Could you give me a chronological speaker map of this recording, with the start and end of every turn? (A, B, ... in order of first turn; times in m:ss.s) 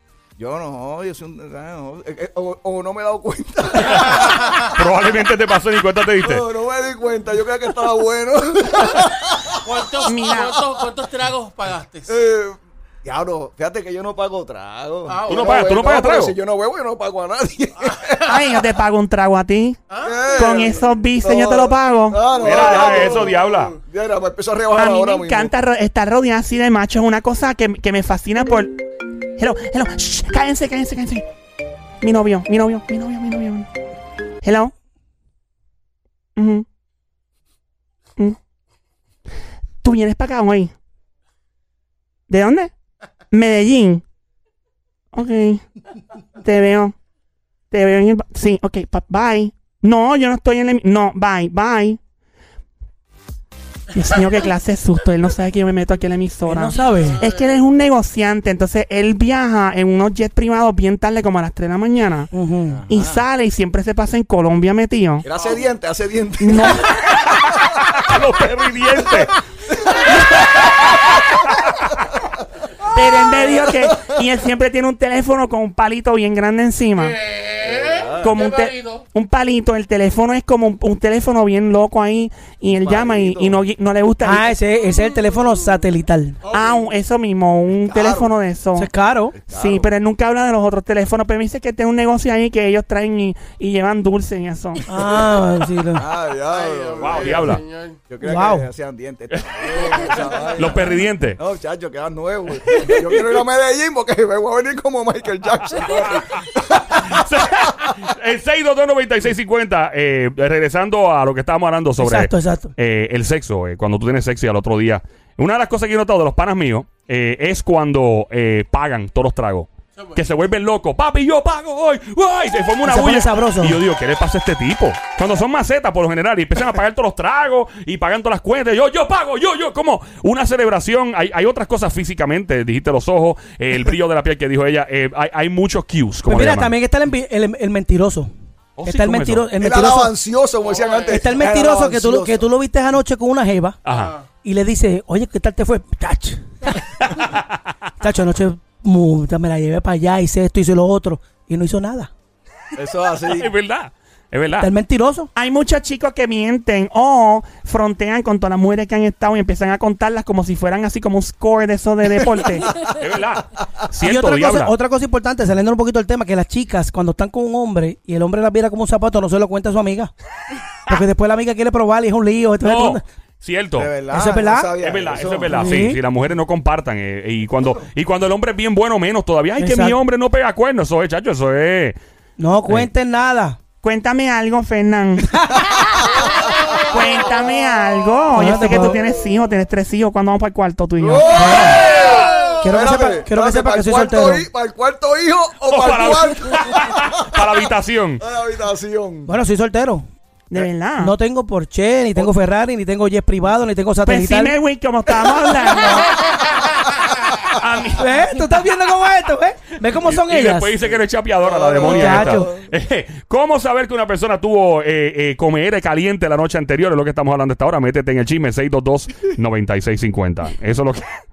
0:00.4-0:04.6 A
0:04.1-0:06.4 B
0:06.2-0:09.6 A
0:09.6-0:12.1 C
0:10.0-0:10.6 D
0:12.1-0:18.2 A
0:15.1-0:15.6 C
0:15.3-0:16.3 B
0:18.2-0:19.8 D
0:19.9-0:20.3 C
0:20.0-0:25.5 A
0:20.3-0:23.1 D
0:22.3-0:23.8 B
0:24.8-0:28.8 D
0:29.4-0:31.2 D
0:32.0-0:33.7 D
0:34.4-0:34.7 D
0:36.4-0:36.6 D
0:39.8-0:40.7 D
0:42.3-0:42.7 D
0:43.3-0:44.0 D
0:45.1-0:45.6 D
0:46.4-0:46.9 D
0:47.7-0:52.0 D
0:53.9-1:02.3 D
0:56.5-0:57.2 E
0:56.9-0:57.5 C
1:02.3-1:02.8 E
1:02.7-1:03.2 A
1:02.9-1:05.2 D
1:05.2-1:07.6 A
1:06.4-1:06.9 D
1:07.2-1:09.3 B
1:10.1-1:10.7 A
1:10.4-1:11.0 B
1:12.9-1:17.2 D
1:13.4-1:14.0 A
1:17.0-1:19.0 C
1:17.6-1:18.4 A
1:18.2-1:24.5 D
1:22.8-1:23.7 A
1:24.2-1:26.4 E
1:26.4-1:26.9 C
1:26.5-1:28.9 D
1:27.9-1:28.3 A
1:28.8-1:29.3 E
1:29.3-1:29.9 A
1:29.5-1:34.9 D
1:34.9-1:36.0 E
1:35.9-1:37.5 A
1:36.5-1:38.0 C
1:37.0-1:37.6 B
1:38.1-1:47.1 A
1:38.2-1:38.7 E
1:39.9-1:40.4 C
1:40.6-1:41.4 B
1:47.0-2:16.7 B
1:52.0-1:52.7 E
2:00.0-2:00.3 C
2:02.8-2:03.8 E
2:16.2-2:18.3 E
2:18.8-2:19.5 B
2:18.8-2:20.1 E
2:19.6-2:22.5 A
2:20.6-2:21.2 C
2:21.1-2:23.8 E
2:23.9-2:24.2 B
2:23.9-2:24.2 C
2:24.4-2:26.7 E
2:27.0-2:27.6 B
2:28.0-2:32.1 E
2:32.7-2:33.5 A
2:33.3-2:34.7 B
2:34.6-2:35.3 E
2:35.4-2:42.8 D
2:42.8-2:44.7 B
2:44.0-2:50.1 E
2:50.8-2:53.0 E
2:52.6-2:53.9 B
2:53.8-2:55.6 A
2:54.1-2:54.7 E
2:54.8-3:02.0 B
2:55.5-2:56.0 E
2:59.6-3:00.0 E
3:02.4-3:03.6 E
3:03.8-3:05.2 D
3:06.3-3:07.5 C
3:06.9-3:11.6 D
3:08.3-3:09.0 E
3:11.0-3:17.2 A
3:11.3-3:11.9 E
3:11.9-3:12.3 C
3:12.6-3:14.5 E
3:15.7-3:18.2 B
3:18.2-3:19.3 A
3:19.2-3:20.1 E
3:20.5-3:21.1 D
3:21.0-3:24.6 E
3:24.0-3:26.2 D
3:27.5-3:28.1 B
3:27.9-3:30.8 E
3:30.0-3:41.1 B
3:30.8-3:32.7 A
3:31.8-3:32.5 E